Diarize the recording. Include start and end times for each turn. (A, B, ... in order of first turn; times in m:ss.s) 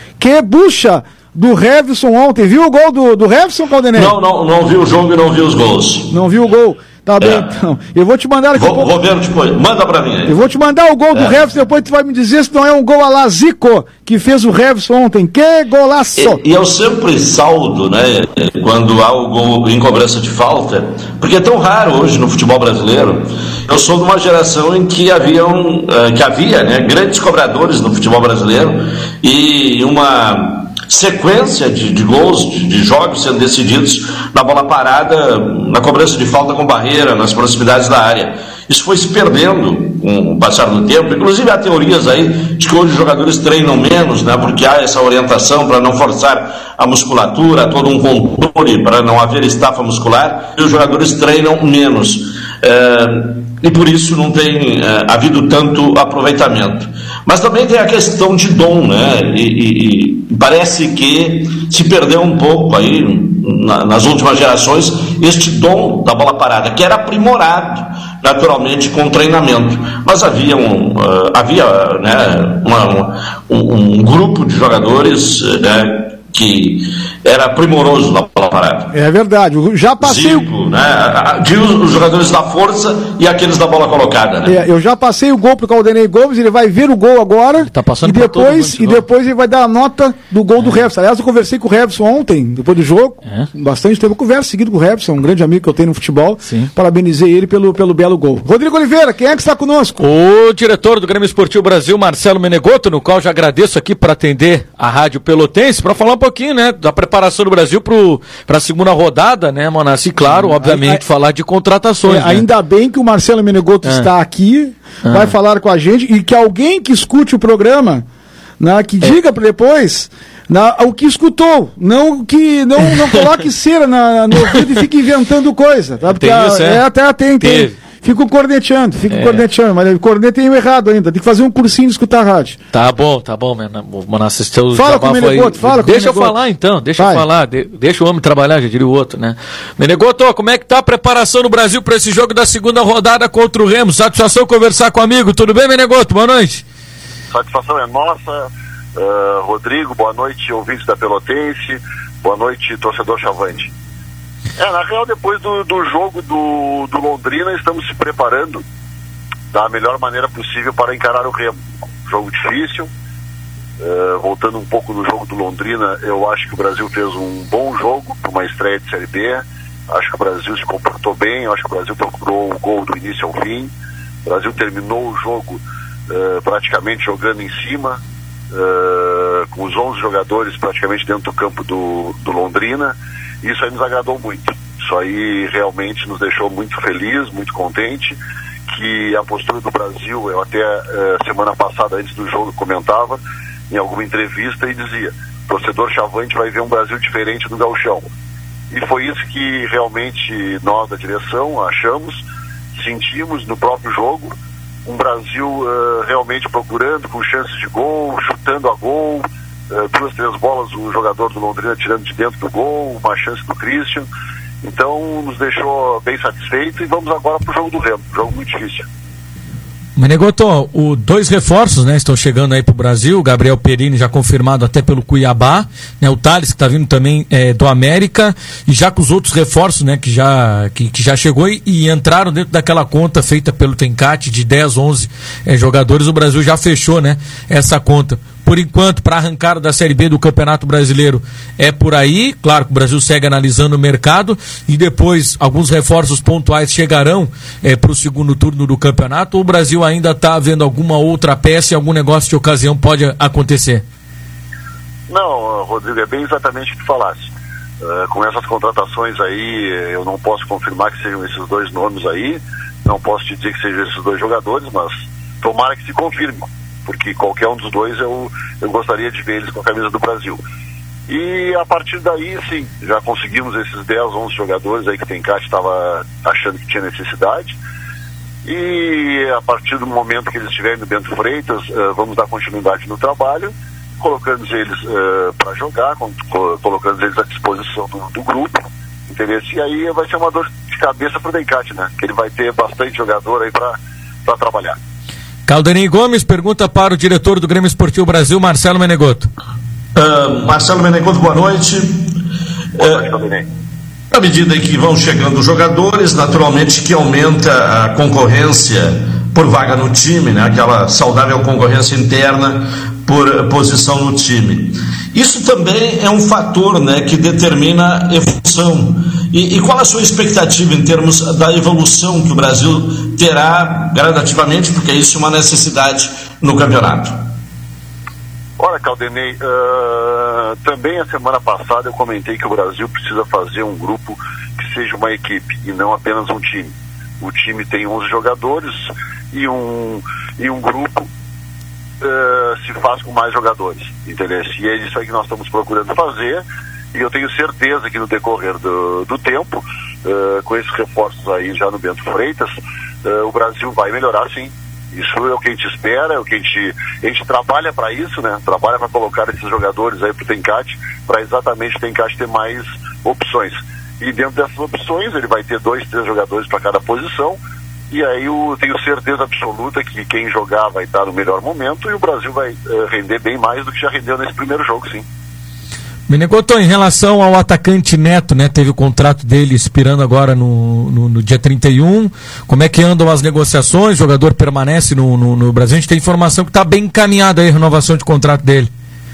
0:00.2-0:04.1 A
0:03.9-0:06.1 B
0:06.1-0:08.9 A
0:07.2-0:07.5 B
0:08.6-0:10.3 B
0:10.2-0:16.4 A
0:16.2-1:18.9 B
1:18.9-1:20.5 A
1:20.0-1:24.6 B
1:24.4-1:40.0 A
1:27.6-1:29.0 C
1:40.0-1:52.4 C
1:50.2-1:51.0 A
1:52.0-1:58.0 A
1:58.6-2:12.6 A
2:06.1-2:06.8 C
2:07.4-2:07.7 C
2:09.1-2:09.4 C
2:12.7-2:26.6 C
2:14.7-2:16.4 A
2:17.0-2:17.2 A
2:27.3-2:33.7 D
2:34.6-2:38.6 D
2:39.5-2:42.9 D
2:43.8-2:53.7 D
2:54.2-2:58.0 D
2:58.5-3:08.2 D
3:08.7-3:18.1 D
3:18.7-3:22.2 D
3:22.8-3:24.3 D
3:24.8-3:34.1 D
3:34.6-3:38.9 D
3:40.0-4:13.8 C
4:15.1-4:17.3 D
4:17.8-4:30.4 D
4:31.1-4:37.6 D
4:38.4-4:54.8 D
4:55.5-4:59.3 C
4:59.9-5:02.2 B
5:02.8-5:03.5 D
5:02.8-5:03.1 B
5:04.1-5:27.2 B
5:28.6-5:41.1 D
5:42.0-6:07.4 D
6:07.9-6:15.0 D
6:16.1-6:28.7 C